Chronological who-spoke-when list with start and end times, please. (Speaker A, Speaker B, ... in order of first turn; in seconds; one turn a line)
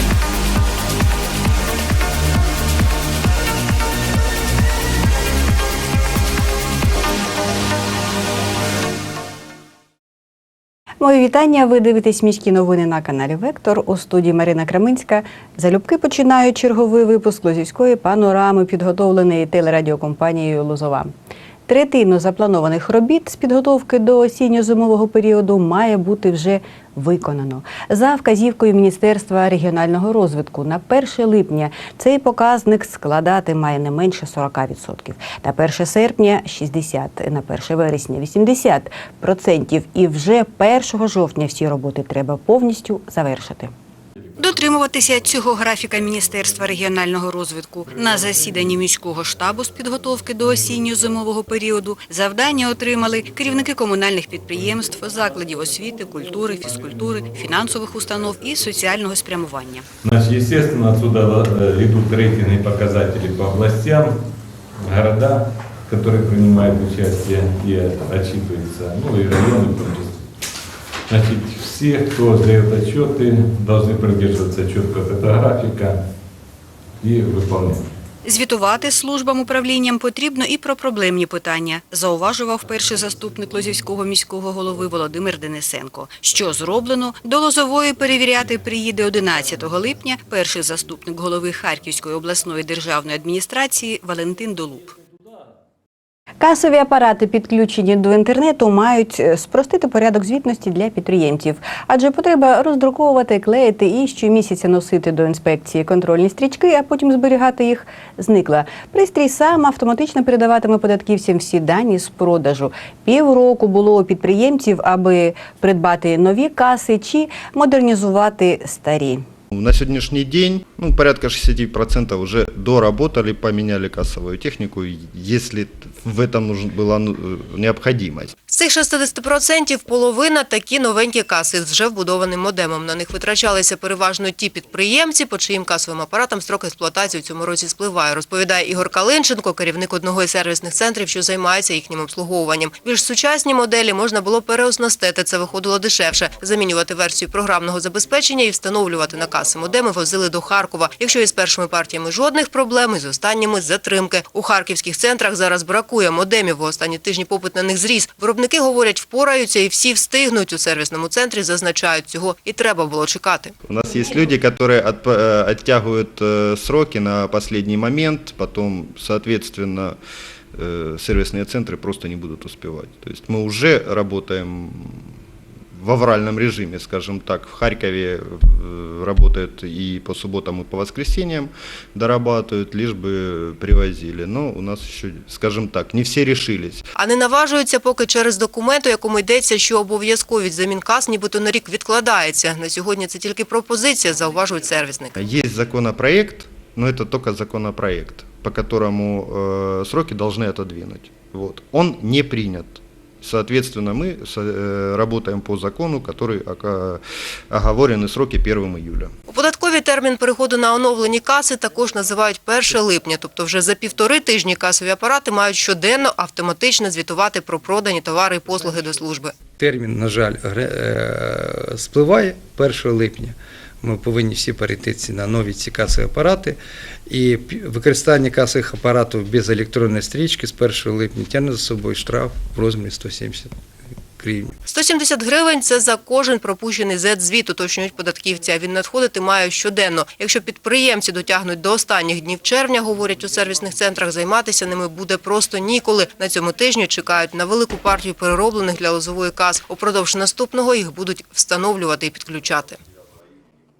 Speaker A: 11.0-21.1
Speaker A: 21.7-43.7
Speaker B: 44.4-59.8
Speaker C: 60.0-64.1
Speaker C: 64.8-70.2
Speaker C: 71.1-76.0
Speaker C: 77.0-77.8
Speaker B: 78.2-82.4
Speaker A: 82.3-89.6
Speaker B: 82.9-83.7
Speaker B: 84.7-85.1
Speaker B: 86.2-90.3
Speaker A: 90.3-94.9
Speaker A: 96.4-119.2
Speaker D: 119.5-128.3
Speaker E: 128.5-163.5
Speaker D: 163.6-170.0
Speaker D: 170.5-175.1
Speaker D: 175.7-186.9
Speaker E: 187.0-195.2
Speaker D: 195.2-209.1
Speaker E: 209.3-219.3
Speaker F: 219.6-226.6
Speaker F: 227.1-233.5
Speaker F: 234.2-234.5
Speaker E: 234.7-252.8